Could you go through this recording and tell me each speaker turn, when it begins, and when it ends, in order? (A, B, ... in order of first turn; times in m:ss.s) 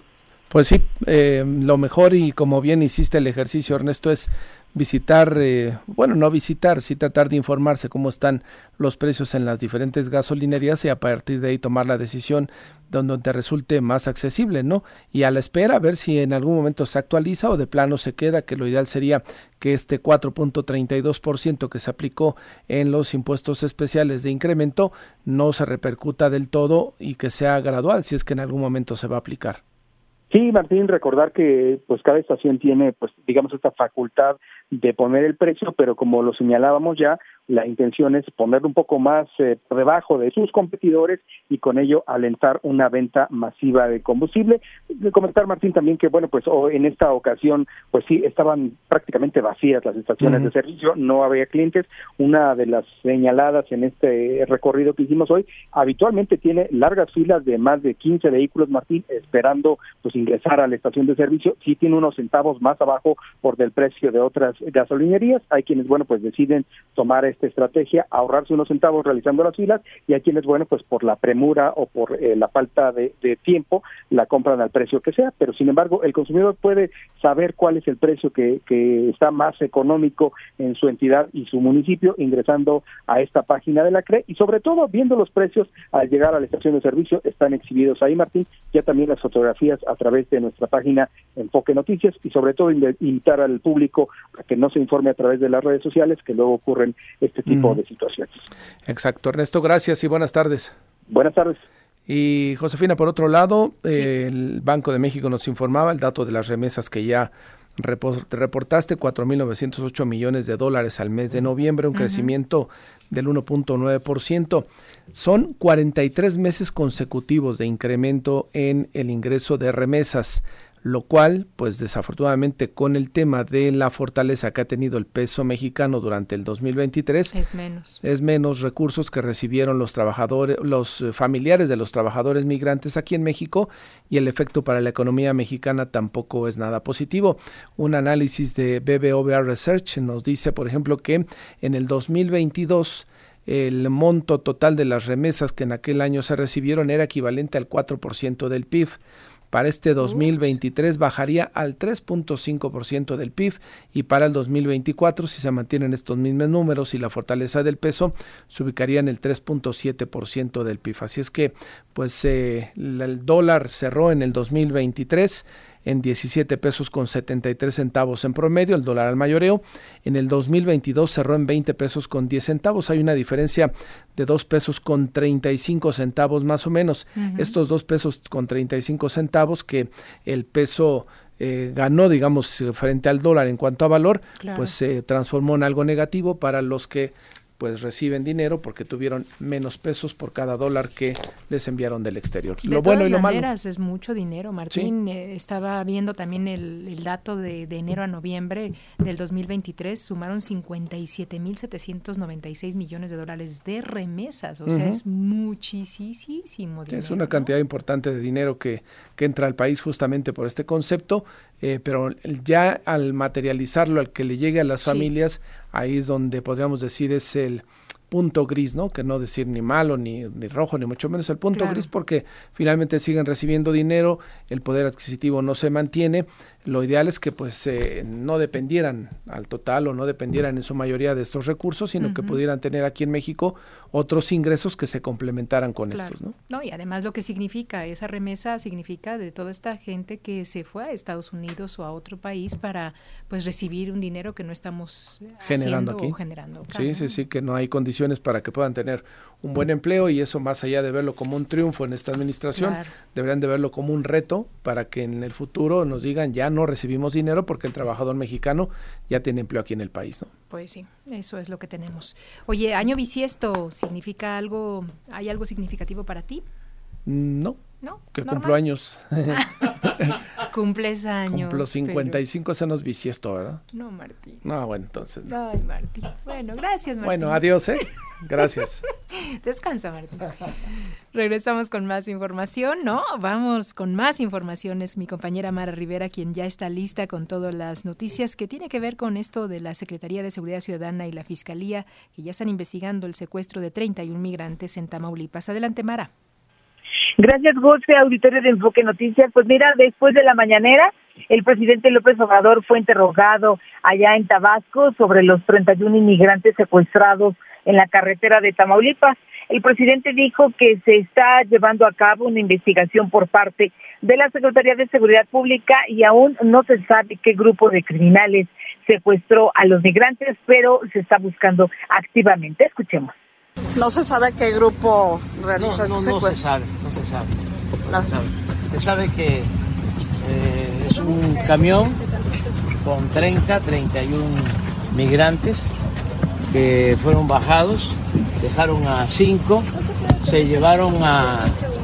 0:00.5-0:29.6 A
0:30.3-1:38.3 B
1:37.5-1:37.8 A
1:38.9-1:40.8 A
1:41.1-1:41.6 B
1:42.1-2:07.3 A
1:51.9-1:52.3 C
2:07.3-2:08.0 C
2:08.0-3:13.5 A
2:30.0-2:30.5 C
2:57.2-2:57.5 C
3:04.4-3:04.7 C
3:12.6-3:27.5 C
3:24.6-3:25.0 A
3:26.9-3:56.3 A
3:34.8-3:35.1 C
3:41.5-3:41.9 C
3:52.0-3:52.4 C
3:55.9-4:07.1 C
4:05.4-4:20.3 A
4:12.5-4:12.9 C
4:20.5-4:26.4 C
4:27.0-4:30.1 A
4:27.8-4:28.6 C
4:29.3-4:29.7 C
4:30.4-4:32.2 C
4:31.3-4:33.6 A
4:33.7-4:34.4 C
4:34.4-4:35.3 A
4:35.3-4:37.4 C
4:37.0-4:38.8 A
4:39.1-4:40.5 C
4:41.1-4:56.1 C
4:57.2-5:23.1 D
5:23.8-5:26.5 E
5:25.6-5:27.3 F
5:27.9-5:29.5 F
5:30.2-5:32.0 F
5:32.8-5:35.7 F
5:36.5-5:39.7 F
5:40.2-5:41.6 F